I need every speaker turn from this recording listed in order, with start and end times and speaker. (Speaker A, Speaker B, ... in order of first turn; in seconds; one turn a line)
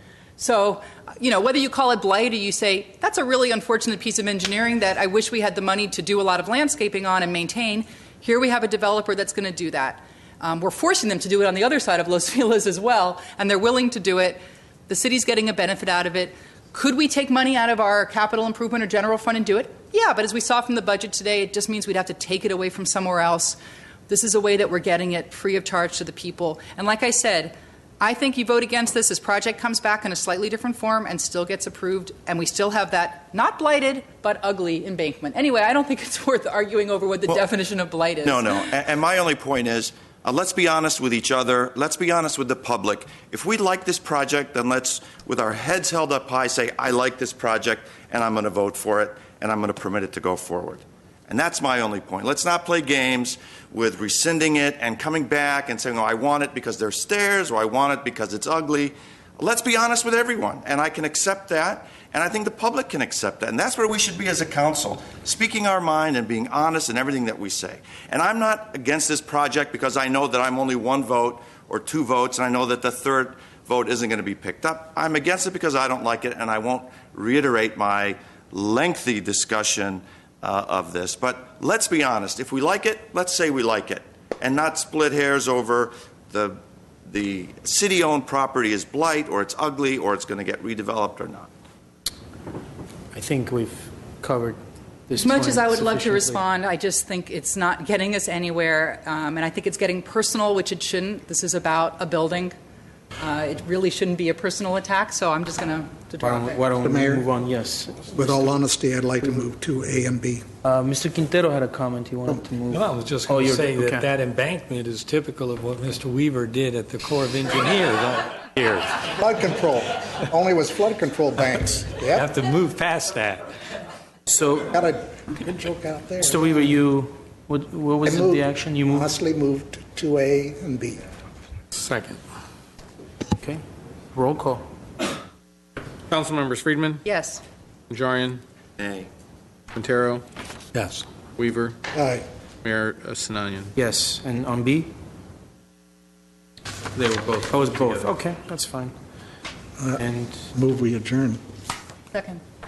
Speaker A: 0.4-23.6
Speaker A: 24.1-38.6
Speaker B: 38.2-91.5
Speaker C: 93.1-96.4
Speaker A: 95.2-102.5
Speaker A: 103.2-106.6
Speaker C: 106.2-108.5
Speaker D: 106.8-107.3
Speaker D: 108.1-110.4
Speaker C: 110.6-114.1
Speaker E: 112.7-119.0
Speaker D: 119.1-122.3
Speaker E: 122.1-123.5
Speaker C: 124.3-124.7
Speaker D: 124.7-126.8
Speaker C: 126.2-129.1
Speaker D: 128.0-131.0
Speaker E: 131.7-132.2
Speaker C: 133.4-133.6
Speaker C: 134.1-134.7
Speaker F: 136.1-137.0
Speaker A: 137.1-137.4
Speaker F: 137.9-138.4
Speaker B: 138.8-139.1
Speaker F: 139.7-140.2
Speaker E: 140.8-141.0
Speaker F: 141.4-141.8
Speaker D: 141.9-142.3
Speaker F: 142.6-143.7
Speaker C: 143.8-144.9
Speaker C: 147.0-148.9
Speaker D: 149.8-150.0
Speaker C: 150.0-150.5
Speaker D: 150.6-151.4
Speaker A: 152.1-152.4